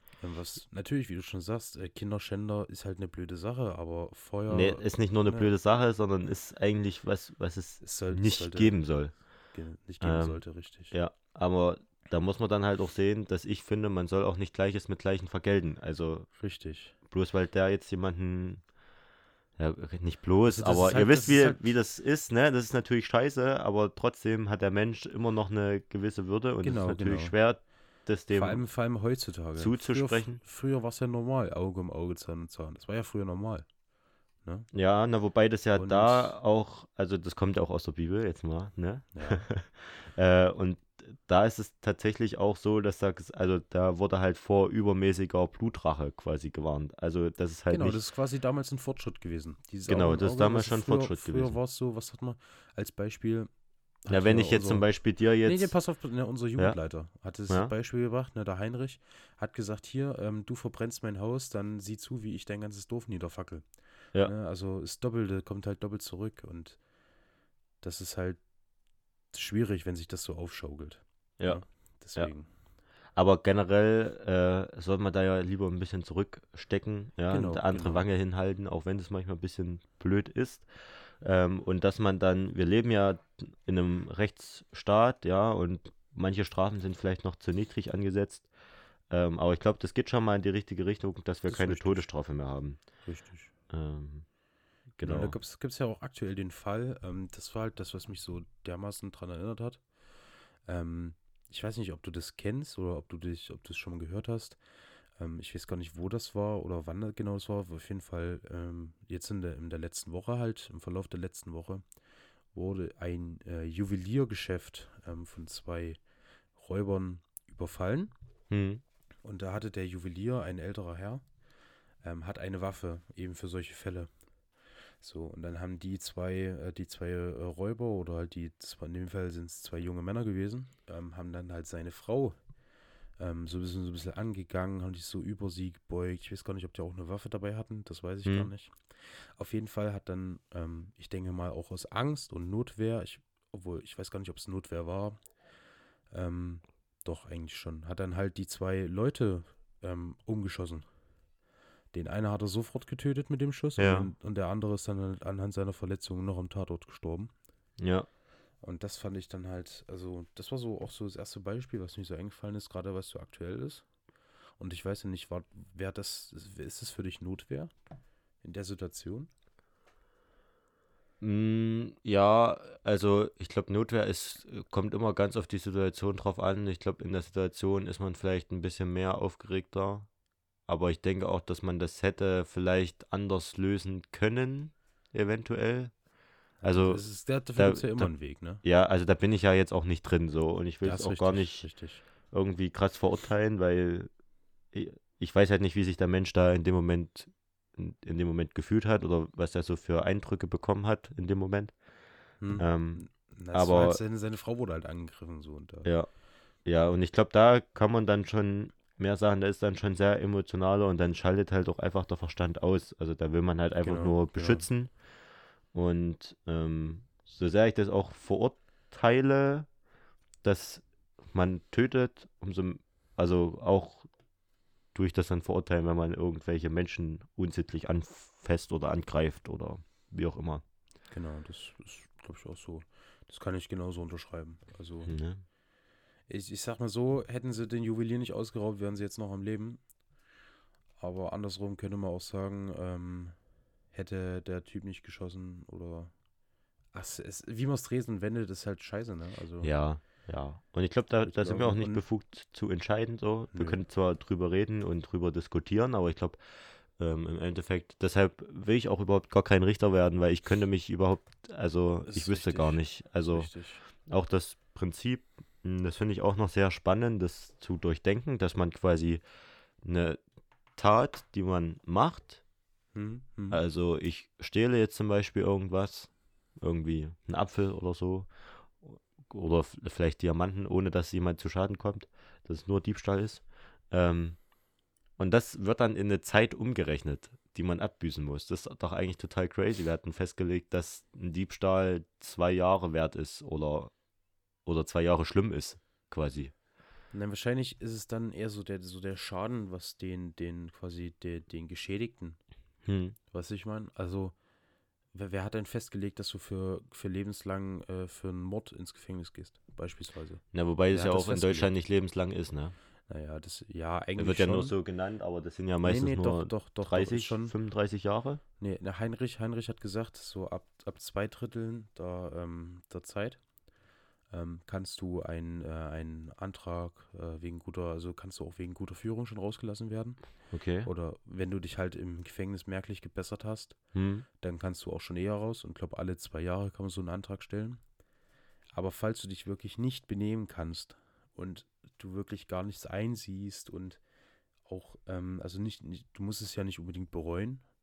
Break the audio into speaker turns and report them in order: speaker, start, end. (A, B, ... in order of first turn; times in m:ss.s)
0:00.2-0:05.5 A
0:04.5-0:09.1 B
0:07.8-0:08.8 A
0:09.5-0:10.9 A
0:10.0-0:16.3 B
0:16.4-0:16.9 A
0:17.1-0:18.6 B
0:19.6-0:28.6 B
0:20.5-0:21.7 A
0:26.6-0:27.4 A
0:28.3-0:33.7 A
0:29.6-0:30.4 B
0:34.4-0:34.7 A
0:34.7-0:48.0 B
0:35.7-0:36.4 A
0:39.1-0:39.5 A
0:47.7-0:53.5 A
0:49.9-0:51.6 B
0:54.0-0:54.9 A
0:54.1-0:55.7 B
0:55.4-1:03.6 A
1:04.2-1:06.8 A
1:07.8-1:08.4 A
1:09.3-1:12.5 A
1:13.2-1:20.7 B
1:17.3-1:18.0 A
1:21.2-1:28.5 B
1:29.1-1:32.8 B
1:31.5-1:32.1 A
1:33.0-1:33.5 A
1:33.7-1:34.2 B
1:35.0-1:35.3 B
1:35.0-1:39.8 A
1:40.6-1:44.6 A
1:45.2-1:51.8 A
1:52.5-1:56.0 A
1:56.6-1:58.1 A
1:58.5-1:58.8 B
1:59.2-2:01.2 A
2:02.0-2:04.1 A
2:05.0-2:12.4 A
2:13.2-2:25.2 A
2:18.2-2:18.5 B
2:26.1-2:30.8 A
2:31.9-2:37.3 A
2:33.8-2:34.1 B
2:37.8-2:38.1 B
2:38.6-2:43.8 A
2:44.6-2:47.7 A
2:48.4-2:49.3 A
2:51.2-3:00.1 B
3:00.7-3:05.9 B
3:06.6-3:08.6 A
3:06.6-3:07.0 B
3:07.6-3:08.1 B
3:08.6-3:11.6 B
3:10.8-3:12.0 A
3:12.3-3:14.1 B
3:14.7-3:21.7 B
3:22.4-3:25.9 A
3:22.6-3:23.0 B
3:23.5-3:24.0 B
3:26.6-3:34.9 B
3:33.8-3:34.6 A
3:35.7-3:39.7 B
3:40.4-3:44.1 B
3:44.9-3:50.6 B
3:51.1-3:55.2 A
3:55.0-3:55.4 B
3:56.3-3:59.8 A
4:01.0-4:03.4 A
4:03.9-4:06.1 A
4:06.9-4:09.7 A
4:09.6-4:16.4 B
4:11.2-4:12.0 A
4:13.5-4:13.8 A
4:17.0-4:23.5 B
4:22.1-4:23.8 A
4:24.0-4:29.2 B
4:29.8-4:30.2 B
4:30.8-4:32.4 B
4:32.9-4:33.6 A
4:33.5-4:38.3 B
4:38.8-4:44.4 B
4:45.2-4:53.9 B
4:54.6-4:56.5 B
4:57.1-5:02.4 A
5:02.8-5:03.2 B
5:03.3-5:04.3 A
5:05.1-5:11.7 A
5:10.5-5:12.7 B
5:13.1-5:14.7 A
5:14.2-5:18.4 B
5:15.8-5:17.5 A
5:18.6-5:23.4 A
5:24.3-5:30.2 A
5:30.5-5:30.9 B
5:30.8-5:33.8 A
5:33.9-5:34.2 B
5:34.4-5:37.8 A
5:38.7-5:44.0 A
5:44.7-5:47.6 A